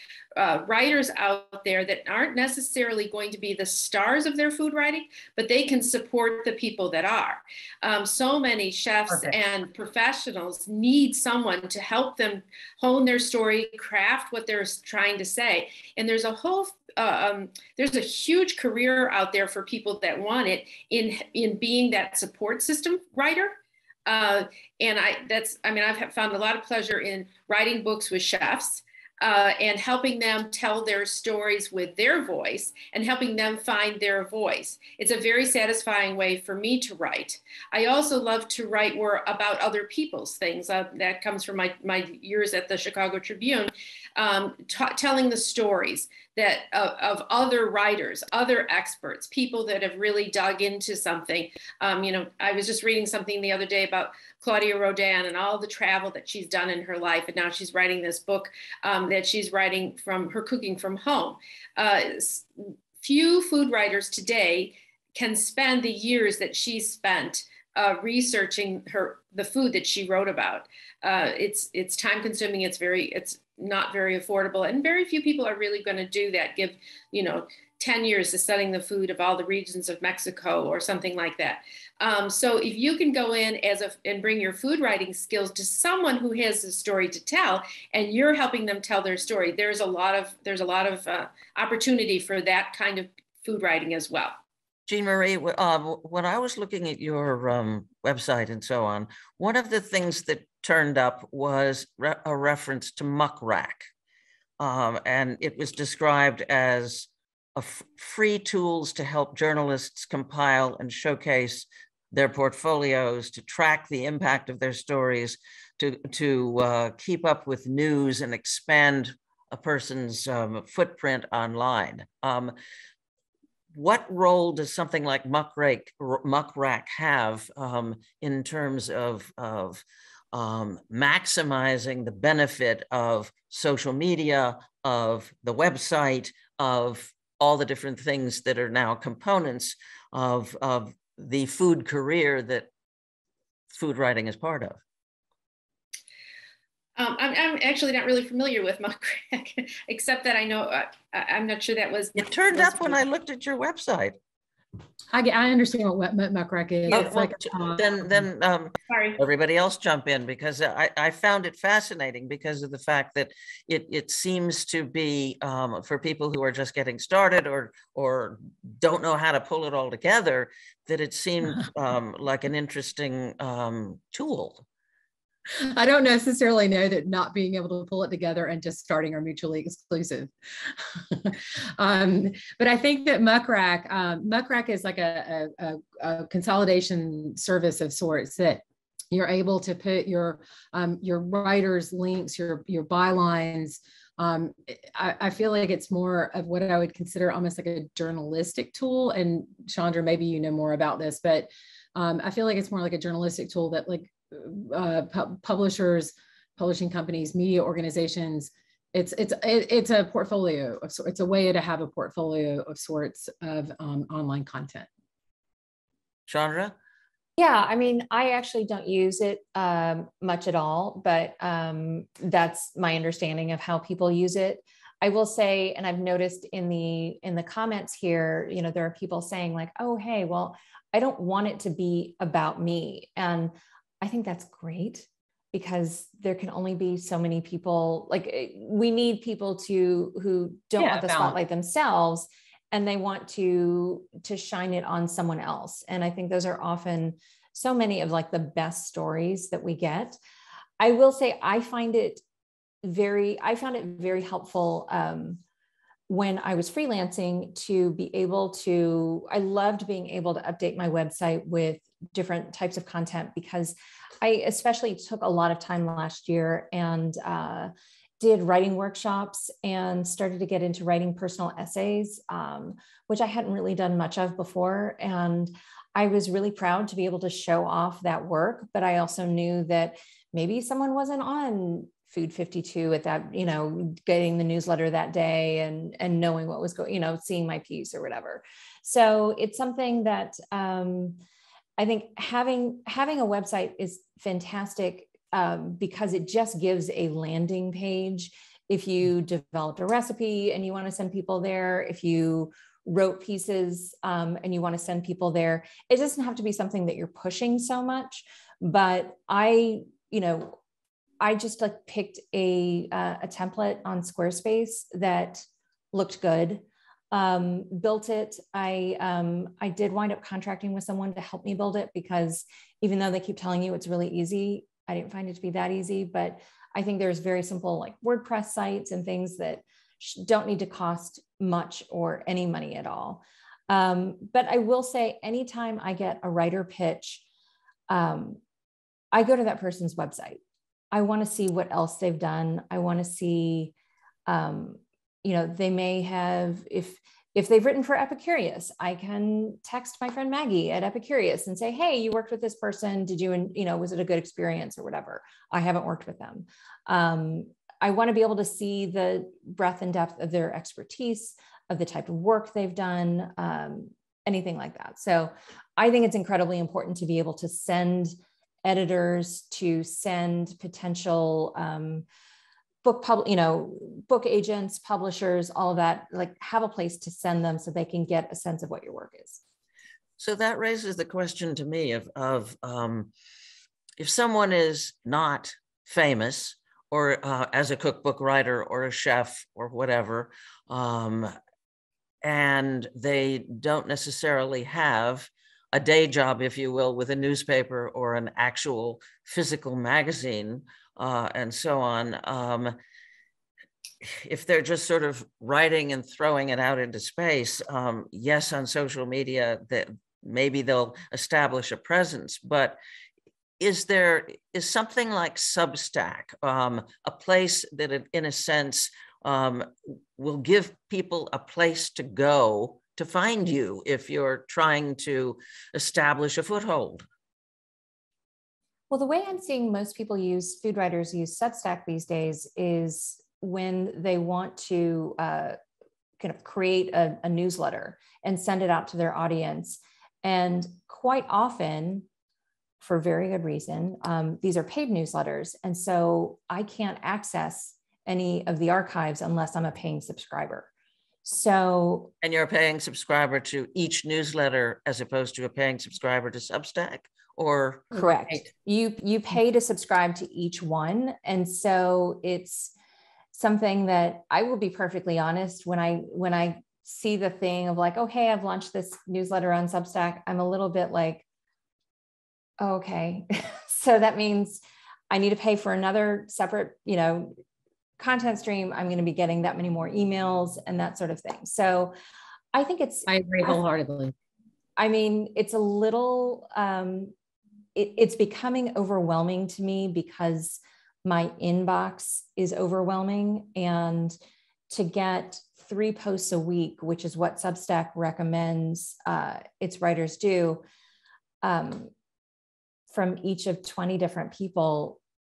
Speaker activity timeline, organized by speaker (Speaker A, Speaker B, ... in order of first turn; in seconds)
Speaker A: 0.4-94.3, 147.0-153.1, 158.9-159.2
Speaker B: 94.9-103.9, 104.6-122.5, 123.7-142.7, 143.7-144.8, 152.2-154.2, 156.9-174.7, 216.3-216.8, 380.2-383.1, 384.0-391.3, 392.2-402.8, 404.0-412.8, 413.6-427.1, 452.2-457.9
Speaker C: 155.1-158.2, 175.6-214.9, 240.8-241.4, 458.0-458.4, 483.1-484.1
Speaker D: 217.4-250.2, 250.8-252.2, 252.8-255.4, 256.1-291.2, 291.8-310.6, 311.2-337.2, 337.9-338.4, 339.1-340.4, 340.9-343.7, 344.3-372.1, 372.8-379.4, 428.9-435.6, 436.2-442.1, 442.8-450.7, 451.2-452.1, 457.9-462.7, 463.3-471.2, 472.6-477.3, 478.0-481.9, 482.5-483.6, 484.8-487.1, 487.8-494.2, 494.7-500.6, 501.4-501.9, 502.9-505.0